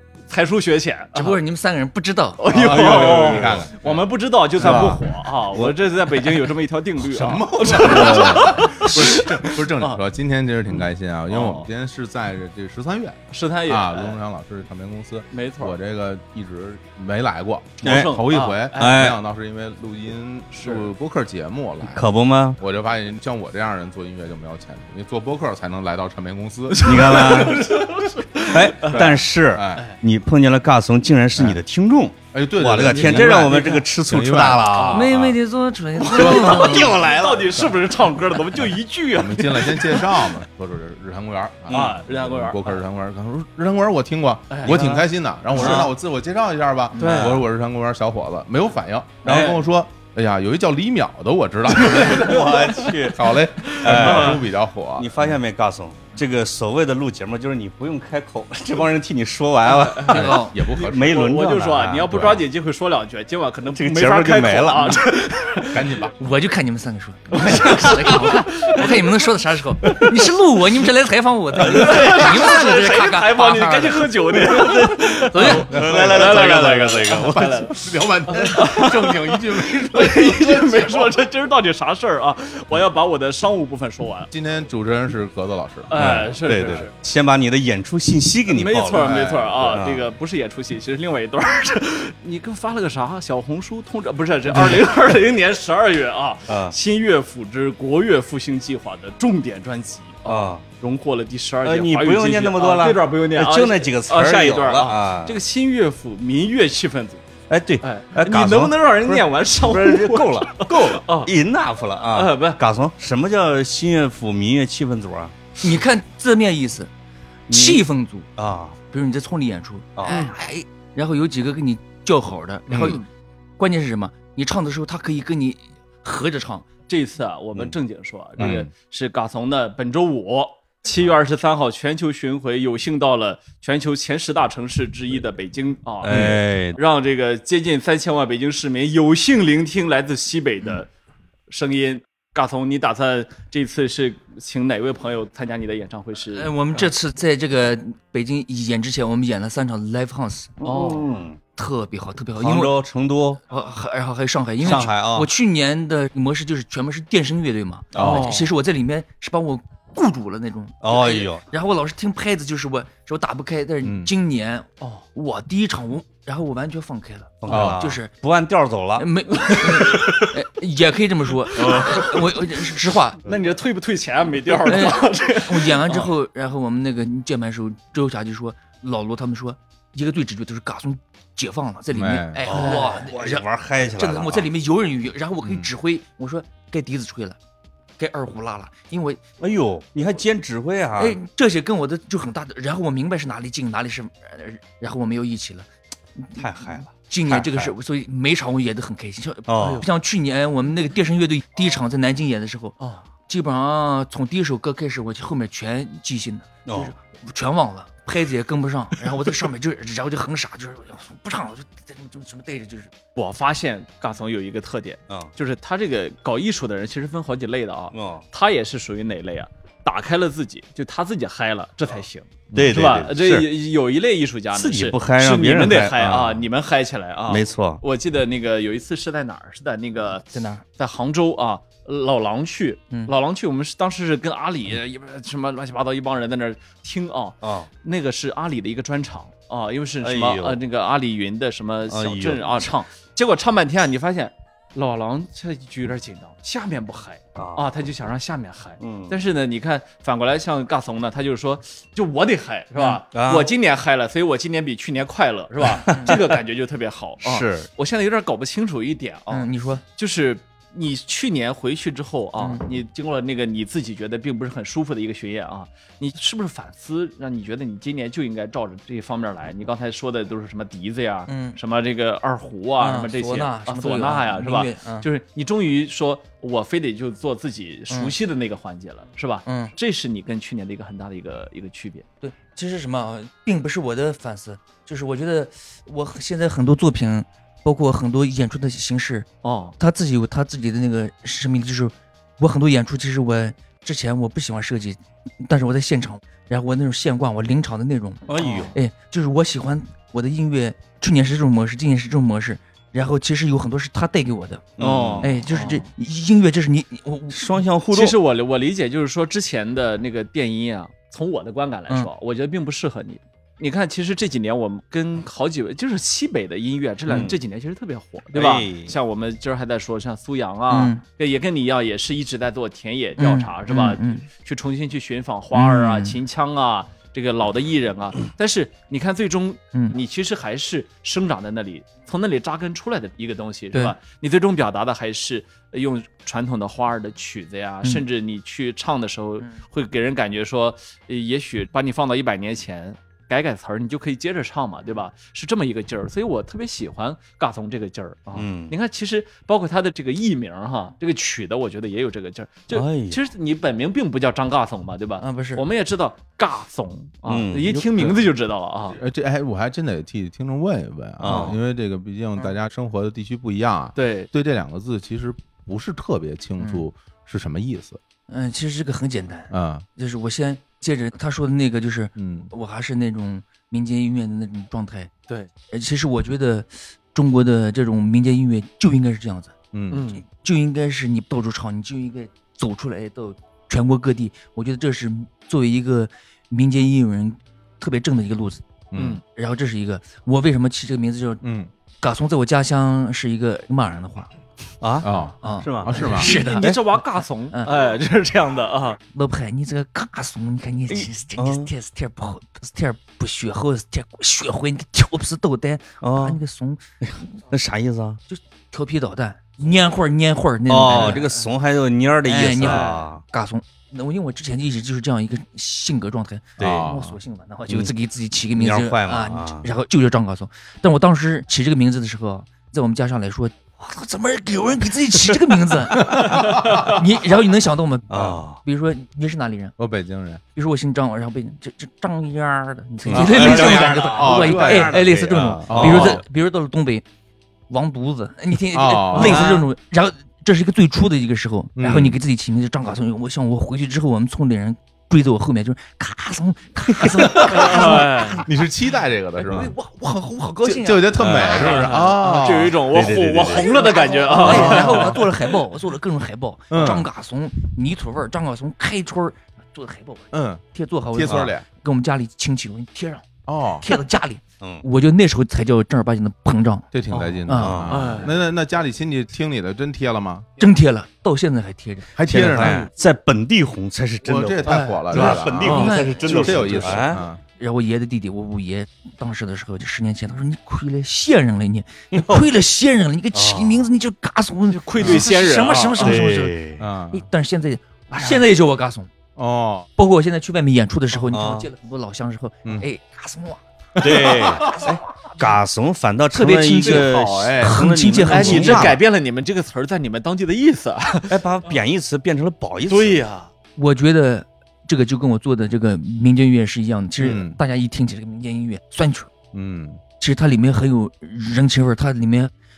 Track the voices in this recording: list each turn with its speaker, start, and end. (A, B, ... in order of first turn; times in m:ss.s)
0:00.3-0:01.4 A
0:01.2-0:02.4 B
0:02.4-0:10.0 A
0:02.5-0:04.1 C
0:02.7-0:03.6 D
0:04.6-0:06.4 D
0:04.6-0:04.9 C
0:07.0-0:28.1 C
0:07.7-0:09.3 D
0:10.8-0:11.7 A
0:13.3-0:14.2 A
0:15.3-0:15.8 A
0:17.8-0:19.2 A
0:17.8-0:19.2 D
0:20.5-0:20.9 A
0:21.8-0:22.6 D
0:26.7-0:29.2 A
0:26.8-0:27.7 D
0:28.4-0:35.2 D
0:28.8-0:29.9 C
0:31.4-0:31.6 C
0:32.3-0:35.4 C
0:32.8-0:33.9 A
0:34.7-0:35.1 A
0:34.9-0:36.9 B
0:36.0-0:37.7 D
0:36.0-0:40.3 A
0:36.1-0:36.6 C
0:39.1-0:55.4 C
0:41.7-0:41.9 D
0:41.7-0:42.8 A
0:44.5-0:44.9 A
0:44.6-0:45.9 D
0:45.5-0:45.9 A
0:46.9-0:47.4 A
0:47.0-0:47.5 D
0:49.2-0:49.6 D
0:51.8-1:02.1 D
0:51.9-0:54.5 A
0:59.6-1:06.1 A
1:00.1-1:01.3 C
1:00.1-1:00.6 B
1:02.1-1:02.5 C
1:03.8-1:05.1 D
1:05.7-1:06.2 C
1:06.2-1:15.7 B
1:07.4-1:09.0 A
1:07.8-1:08.3 C
1:11.6-1:12.5 D
1:11.6-1:24.3 A
1:14.5-1:17.6 D
1:15.4-1:21.2 C
1:24.3-1:26.8 C
1:25.9-1:26.9 A
1:25.9-1:30.0 D
1:28.5-1:47.2 A
1:29.0-1:29.8 C
1:34.6-1:34.8 D
1:36.5-1:36.8 D
1:40.3-1:40.6 D
1:41.6-1:45.4 D
1:47.5-1:55.4 D
1:47.8-1:51.3 A
1:50.7-1:51.0 C
1:52.1-1:52.6 A
1:55.6-1:56.9 B
1:57.5-1:58.3 B
1:57.5-1:58.8 D
1:58.9-2:03.0 B
2:00.1-2:00.4 A
2:02.7-2:03.0 C
2:03.6-2:06.7 B
2:06.9-2:20.9 A
2:08.4-2:08.7 C
2:16.0-2:16.8 D
2:21.5-2:26.9 A
2:26.3-2:30.5 B
2:30.6-2:31.4 D
2:30.6-2:31.1 A
2:31.6-2:32.8 B
2:32.4-2:33.4 D
2:33.5-2:48.1 B
2:34.6-2:35.3 D
2:37.9-2:38.3 D
2:37.9-2:38.3 C
2:38.0-2:38.5 A
2:40.8-2:41.4 D
2:43.8-2:44.1 C
2:47.4-2:49.7 D
2:47.5-2:47.9 C
2:49.0-2:53.2 B
2:49.5-2:50.3 A
2:51.5-2:52.2 A
2:51.6-2:52.0 D
2:53.3-2:56.1 A
2:54.6-3:07.4 B
3:02.0-3:02.4 C
3:02.5-3:04.5 D
3:02.5-3:03.0 A
3:05.4-3:05.7 C
3:08.0-3:09.2 B
3:09.4-3:11.2 D
3:11.0-3:15.7 B
3:16.2-3:32.9 B
3:16.4-3:17.7 D
3:19.5-3:19.9 D
3:26.7-3:26.9 D
3:33.2-3:50.2 A
3:37.9-3:38.2 D
3:42.5-3:42.8 C
3:42.5-3:43.5 D
3:44.5-3:46.4 D
3:47.3-3:47.8 D
3:50.3-3:50.6 B
3:50.8-4:42.0 A
3:57.4-3:57.7 D
4:00.0-4:00.6 D
4:01.9-4:02.7 D
4:07.4-4:07.6 D
4:08.8-4:09.2 D
4:12.8-4:13.0 B
4:13.1-4:13.5 D
4:15.8-4:16.2 B
4:15.8-4:16.2 D
4:17.2-4:17.7 D
4:19.3-4:19.8 B
4:22.4-4:22.6 B
4:31.3-4:31.6 B
4:32.8-4:35.1 B
4:39.5-4:39.7 B
4:42.2-4:49.3 B
4:49.4-4:49.8 A
4:49.8-5:04.7 B
4:58.3-4:58.7 D
4:58.4-4:58.8 A
5:04.8-5:05.3 D
5:04.8-5:05.8 A
5:05.2-5:07.6 B
5:07.3-5:08.2 D
5:07.9-5:59.0 A
5:17.1-5:17.4 D
5:18.3-5:19.0 D
5:20.7-5:21.0 B
5:23.2-5:24.3 B
5:25.5-5:26.2 B
5:48.4-5:48.7 D
5:52.7-5:53.2 D
5:55.2-5:55.6 B
5:57.3-5:57.8 D
5:57.9-5:58.2 C
5:58.9-6:08.0 C
6:01.2-6:01.6 D
6:01.2-6:01.6 A
6:04.0-6:04.3 A
6:06.6-6:06.9 B
6:08.3-6:15.1 B
6:09.5-6:09.8 C
6:12.2-6:12.5 C
6:15.7-6:19.5 B
6:19.7-6:20.1 C
6:19.9-6:20.2 A
6:20.2-6:28.6 B
6:28.9-6:29.2 C
6:29.0-6:29.2 A
6:29.3-6:31.4 B
6:31.4-6:31.7 C
6:32.0-6:34.3 B
6:34.8-6:36.8 D
6:35.0-6:36.3 C
6:35.4-6:37.7 B
6:36.0-6:39.0 A
6:39.1-6:46.8 B
6:41.4-6:41.7 D
6:46.0-6:46.4 D
6:47.0-6:48.2 D
6:48.3-6:51.3 B
6:50.7-6:53.2 D
6:50.9-6:51.5 A
6:52.2-7:09.8 B
6:52.6-6:52.9 A
6:56.6-6:57.2 C
6:56.6-6:56.9 D
6:58.6-6:59.7 D
7:06.0-7:07.0 C
7:06.6-7:06.9 D
7:08.1-7:08.6 D
7:09.8-7:10.4 C
7:10.6-7:17.0 B
7:13.1-7:16.2 D
7:13.2-7:15.0 C
7:13.2-7:14.8 A
7:15.7-7:16.2 C
7:17.7-7:28.5 B
7:18.7-7:19.6 C
7:19.1-7:19.7 D
7:21.8-7:22.2 C
7:27.2-7:29.8 C
7:27.3-7:28.4 A
7:29.4-7:31.9 B
7:30.6-7:32.8 C
7:31.2-7:31.7 D
7:31.4-7:35.4 A
7:32.9-7:33.7 D
7:33.6-7:43.3 B
7:34.4-7:35.2 C
7:34.5-7:34.8 D
7:36.7-7:37.1 C
7:40.3-7:41.7 C
7:43.5-7:43.9 C
7:43.8-7:46.9 B
7:46.9-7:50.5 C
7:47.4-7:47.9 B
7:47.6-7:48.3 D
7:47.9-7:48.4 A
7:50.6-7:52.1 B
7:52.2-7:52.9 C
7:52.3-7:57.2 D
7:52.6-7:52.9 A
7:54.2-7:57.4 C
7:54.7-7:57.2 A
7:55.6-7:56.3 B
7:57.6-8:06.6 B
8:02.1-8:02.5 D
8:03.3-8:03.9 D
8:04.7-8:06.3 A
8:06.0-8:06.8 D
8:06.8-8:07.3 C
8:07.1-8:09.1 B
8:08.1-8:08.4 A
8:09.4-8:09.9 C
8:10.0-8:15.5 B
8:11.3-8:11.7 D
8:14.0-8:15.0 C
8:14.0-8:14.8 D
8:15.4-8:19.0 D
8:16.3-8:19.0 B
8:16.8-8:17.6 A
8:17.2-8:17.8 C
8:18.3-8:21.4 A
8:18.5-8:19.0 C
8:21.3-8:23.2 D
8:22.9-8:23.5 A
8:23.8-8:29.3 B
8:27.2-8:27.6 C
8:29.5-8:30.0 C
8:30.2-8:32.5 B